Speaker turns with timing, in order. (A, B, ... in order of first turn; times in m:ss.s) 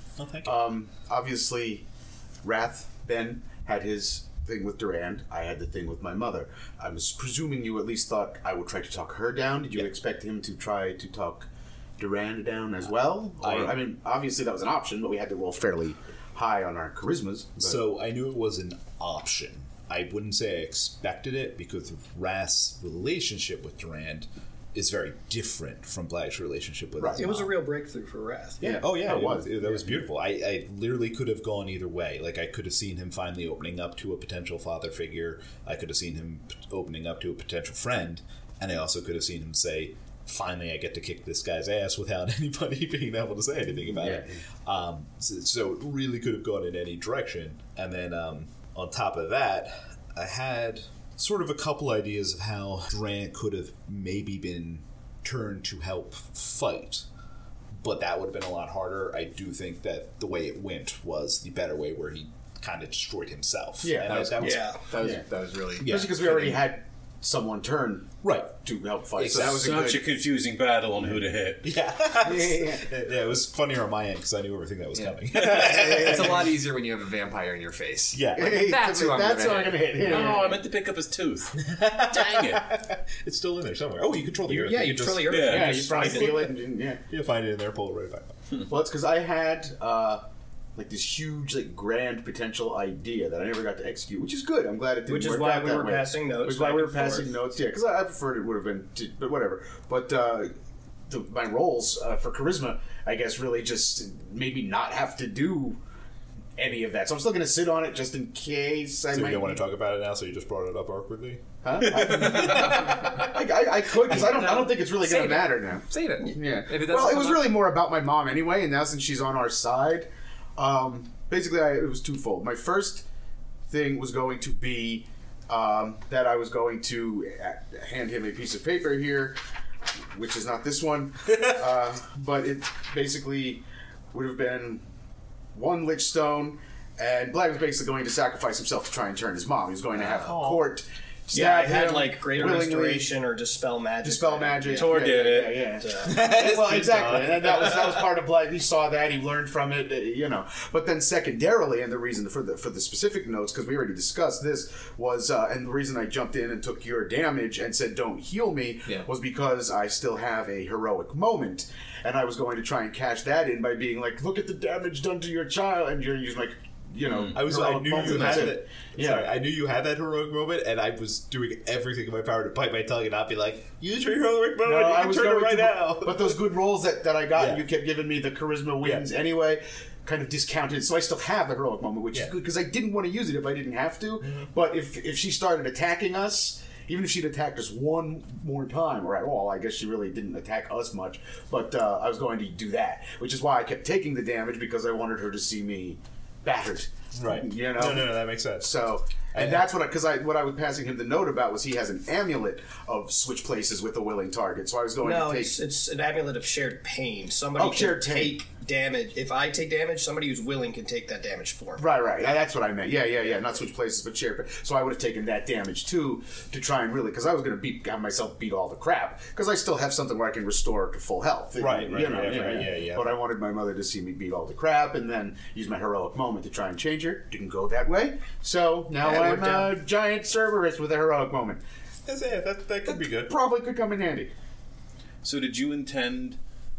0:00.2-0:00.6 A
0:00.4-0:01.8 B
0:02.4-0:17.8 B
0:13.4-0:13.8 A
0:17.6-0:27.5 A
0:27.0-0:27.2 B
0:27.2-0:28.6 C
0:28.6-0:30.1 B
0:28.6-0:57.0 A
0:43.8-0:44.4 B
0:57.8-1:04.8 A
1:03.8-1:04.4 B
1:04.0-1:06.6 D
1:04.4-1:04.8 C
1:05.0-1:05.2 B
1:05.8-1:10.0 B
1:05.8-1:06.3 A
1:08.2-1:08.6 A
1:09.1-1:09.9 A
1:09.3-1:11.6 E
1:11.6-1:16.5 A
1:12.2-1:12.8 B
1:14.9-1:20.3 D
1:18.1-1:18.7 A
1:18.3-1:20.6 B
1:20.0-1:22.6 E
1:21.6-1:26.5 A
1:24.4-1:26.4 C
1:25.3-1:25.9 E
1:25.5-1:27.0 B
1:27.1-1:28.4 A
1:28.6-1:30.2 B
1:30.8-1:40.5 B
1:35.1-1:37.3 C
1:41.1-1:45.8 B
1:46.6-1:49.6 B
1:49.1-1:52.8 A
1:51.6-2:03.0 B
1:51.9-1:52.8 E
1:54.1-1:57.6 D
2:03.7-2:09.4 B
2:10.1-2:14.8 B
2:15.5-2:23.1 B
2:20.0-2:20.7 A
2:21.3-2:26.2 C
2:24.0-2:49.3 B
2:24.7-2:25.7 E
2:26.0-2:27.7 A
2:47.0-2:47.4 E
2:47.3-2:56.4 A
2:48.1-2:48.4 E
2:54.6-3:25.6 B
2:57.3-2:57.6 A
2:58.8-2:59.1 A
3:17.1-3:18.8 A
3:19.3-3:19.6 A
3:25.0-3:31.8 C
3:27.6-3:28.4 B
3:31.8-3:51.6 B
3:41.6-3:43.2 A
3:49.0-3:49.7 C
3:52.0-3:53.4 A
3:52.9-3:54.3 B
3:55.2-3:56.4 E